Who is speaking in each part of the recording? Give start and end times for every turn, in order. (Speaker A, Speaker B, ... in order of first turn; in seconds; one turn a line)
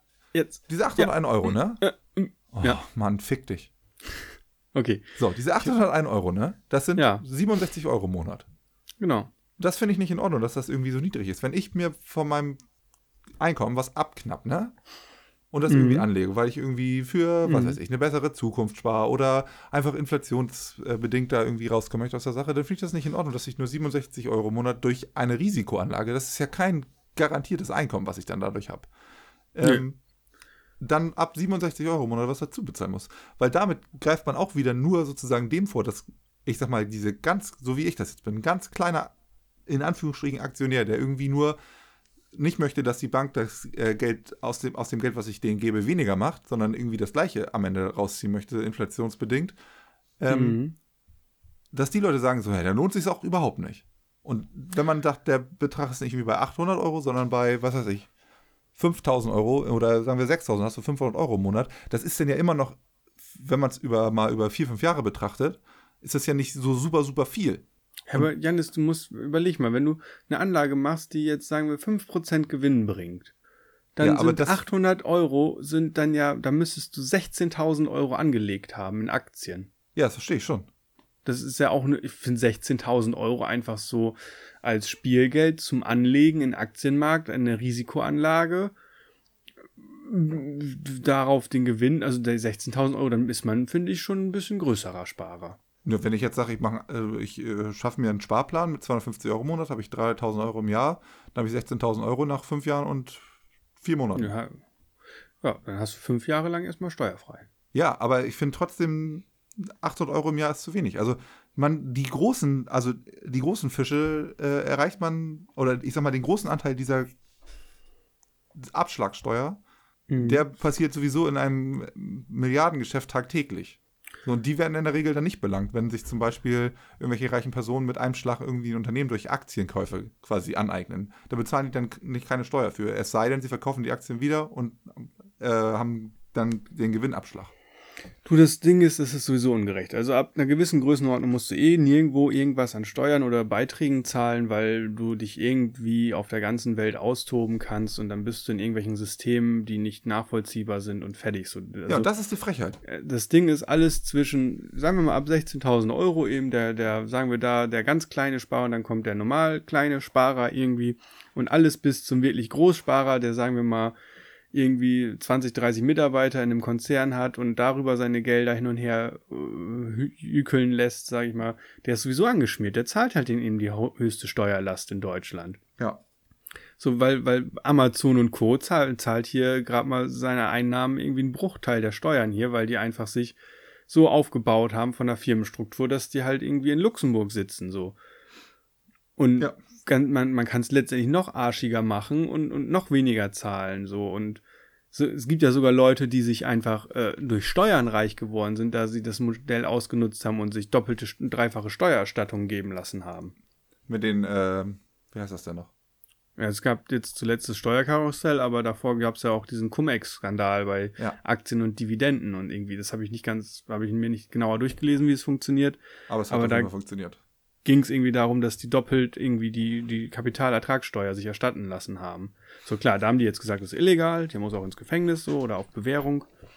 Speaker A: 0.3-2.8
Speaker B: 0.7-1.8
Speaker B: 2.5-3.7
Speaker A: 4.7-5.2
Speaker B: 5.2-8.4
Speaker A: 7.0-7.2
Speaker A: 9.0-9.3
Speaker B: 9.6-12.6
Speaker B: 13.4-14.7
Speaker B: 15.5-28.9
Speaker A: 15.7-16.1
Speaker A: 17.4-17.8
Speaker B: 29.5-30.0
Speaker B: 30.8-39.1
Speaker B: 39.7-41.6
Speaker B: 42.3-49.6
Speaker B: 50.2-50.6
Speaker A: 50.3-50.7
Speaker B: 51.7-58.1
Speaker B: 58.8-62.8
Speaker B: 63.3-68.3
Speaker A: 68.1-73.3
Speaker A: 74.0-79.7
Speaker B: 74.0-74.6
Speaker B: 80.0-80.7
Speaker A: 81.2-88.7
Speaker A: 89.8-95.6
Speaker B: 95.8-103.2
Speaker B: 103.8-104.3
Speaker A: 104.1-104.6
Speaker A: 105.4-107.5
Speaker B: 107.7-117.1
Speaker B: 118.5-119.6
Speaker A: 120.1-120.4
Speaker B: 120.2-137.5
Speaker A: 138.2-152.1
Speaker B: 151.9-152.8
Speaker A: 152.8-163.9
Speaker A: 164.5-175.6
Speaker A: 176.8-183.4
Speaker A: 183.9-188.0
Speaker A: 189.2-203.3
Speaker B: 203.9-205.7
Speaker A: 206.4-215.8
Speaker B: 216.1-217.2
Speaker A: 216.3-216.7
Speaker A: 217.6-226.3